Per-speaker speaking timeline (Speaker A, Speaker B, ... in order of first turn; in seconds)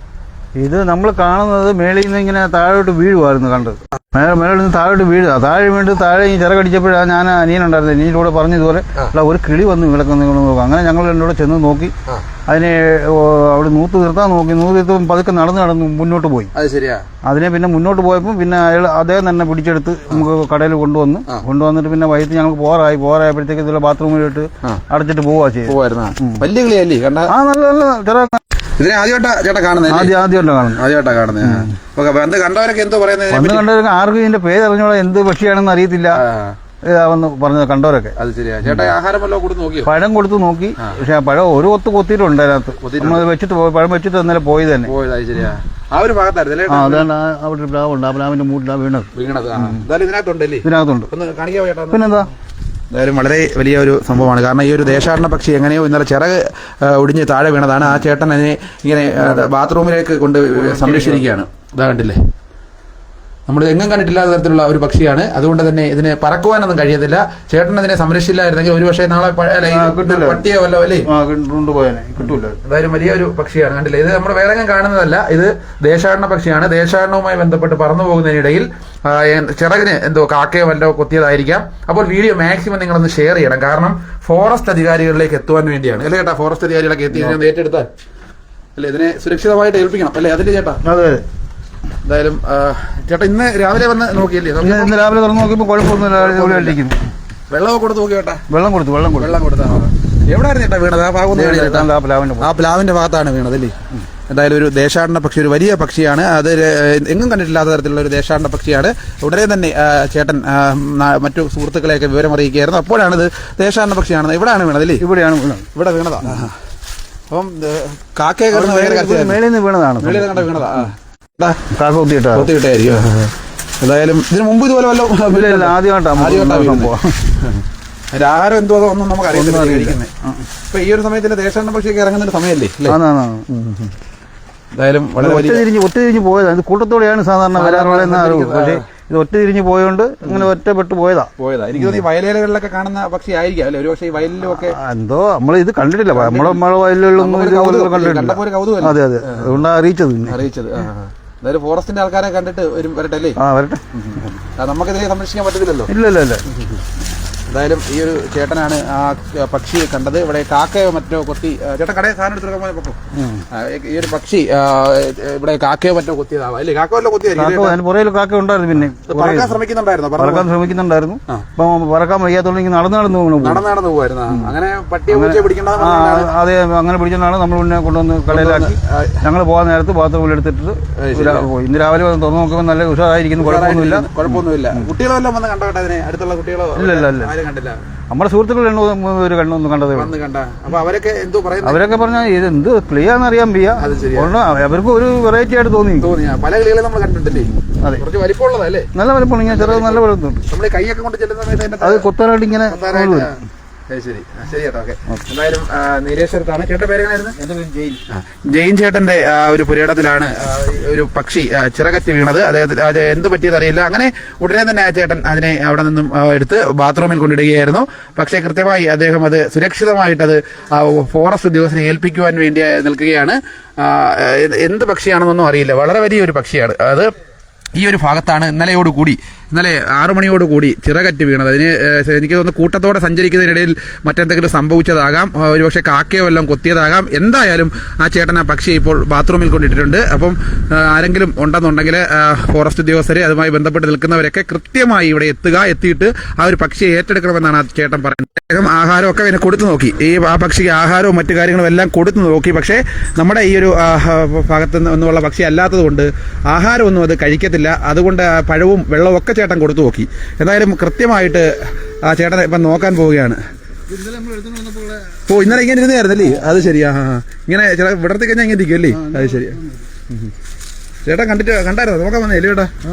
Speaker A: 0.6-11.9, 12.5-16.5, 17.2-26.5, 27.3-28.4, 29.9-30.9, 31.4-31.7, 33.3-36.2, 36.8-38.9, 39.8-44.9, 46.7-49.9, 50.6-51.1, 51.9-52.3, 60.5-61.2, 69.6-70.5, 71.0-72.6, 90.8-91.2, 94.6-97.0, 98.5-99.4, 101.3-102.5, 115.0-115.7, 116.2-116.5, 118.5-120.8, 121.7-122.5, 125.3-127.2, 129.3-130.4, 132.8-133.5, 135.2-142.0, 144.4-150.4, 153.3-154.3, 155.9-156.4, 163.1-163.4, 167.3-169.6, 170.2-173.7, 174.3-174.5, 175.1-184.9, 186.7-187.3, 188.1-190.1, 191.6-196.1, 197.3-198.0, 198.9-200.4, 201.8-203.4, 207.4-208.0, 263.9-265.4, 266.2-266.6, 268.9-269.6
Speaker B: 16.5-17.0, 25.6-27.3, 28.8-30.1, 30.7-33.7, 36.1-36.6, 38.1-39.9, 42.8-43.2, 44.8-47.1, 49.1-52.2, 52.9-62.2, 63.5-71.1, 72.6-87.9, 88.7-90.8, 92.0-94.9, 96.0-96.8, 97.5-98.4, 99.1-103.8, 104.3-115.0, 115.7-116.5, 117.3-119.4, 120.0-121.6, 122.3-127.6, 128.1-130.1, 130.7-133.0, 133.5-133.8, 134.7-135.7, 137.5-138.8, 140.2-140.5, 141.4-144.8, 146.1-146.6, 147.2-149.6, 150.2-153.4, 153.9-155.9, 157.5-163.0, 163.5-167.8, 168.8-170.5, 173.4-176.3, 178.3-179.2, 180.9-181.5, 183.4-187.8, 189.9-191.9, 193.8-194.3, 196.0-198.9, 199.4-202.1, 202.7-203.3, 203.9-207.3, 208.1-227.1, 227.7-261.5, 262.0-263.4, 265.2-269.6, 271.0-272.7